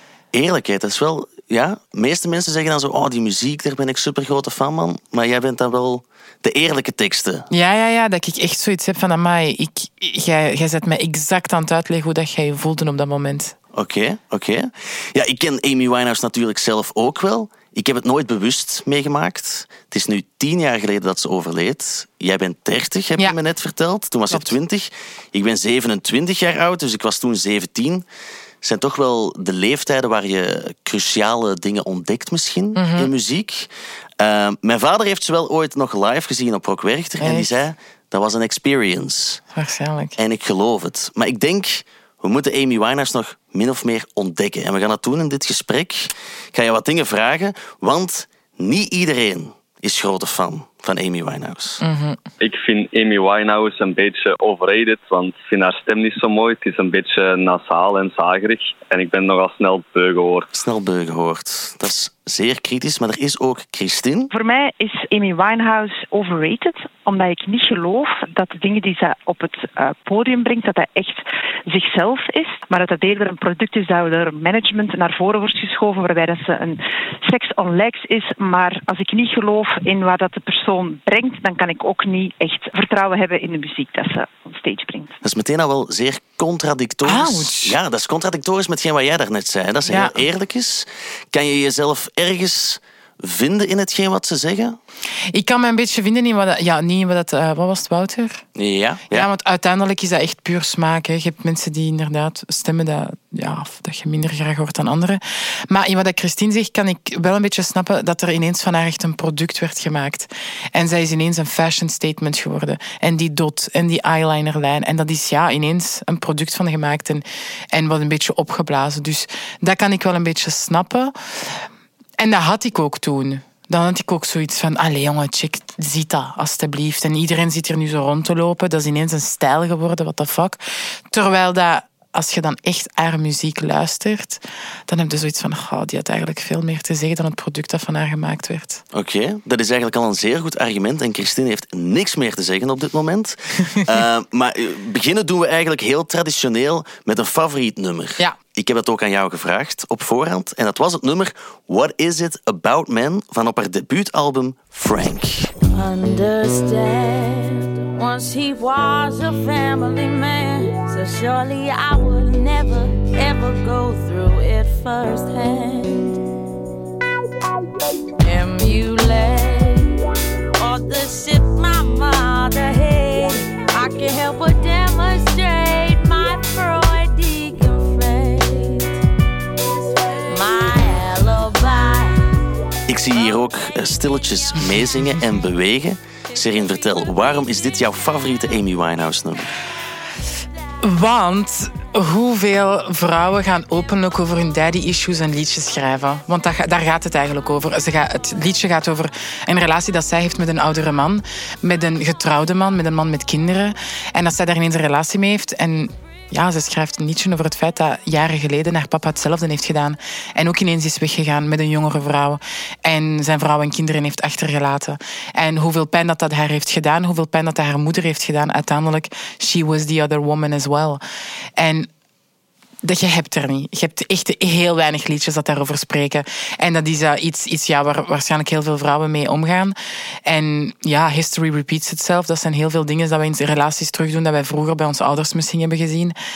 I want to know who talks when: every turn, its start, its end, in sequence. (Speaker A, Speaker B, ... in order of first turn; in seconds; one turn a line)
Speaker A: 0.3-7.5
Speaker B: 7.5-13.6
Speaker A: 13.7-28.1
Speaker A: 28.6-39.4
Speaker B: 32.7-33.1
Speaker B: 37.2-37.5
Speaker B: 39.5-40.1
Speaker A: 40.2-51.8
Speaker B: 51.8-52.2
Speaker C: 52.4-60.5
Speaker A: 60.5-64.3
Speaker D: 64.3-85.1
Speaker A: 85.2-94.8
Speaker B: 87.0-87.8
Speaker B: 89.9-90.2
Speaker B: 95.3-98.4
Speaker A: 98.5-99.3
Speaker B: 99.1-121.7
Speaker B: 122.2-130.6
Speaker B: 131.1-138.8
Speaker A: 138.9-155.5
Speaker E: 155.7-166.2
Speaker E: 168.2-170.0
Speaker E: 170.6-179.0
Speaker E: 180.2-182.3
Speaker A: 182.9-189.5
Speaker B: 190.8-221.0
Speaker B: 221.6-221.9
Speaker B: 222.8-236.1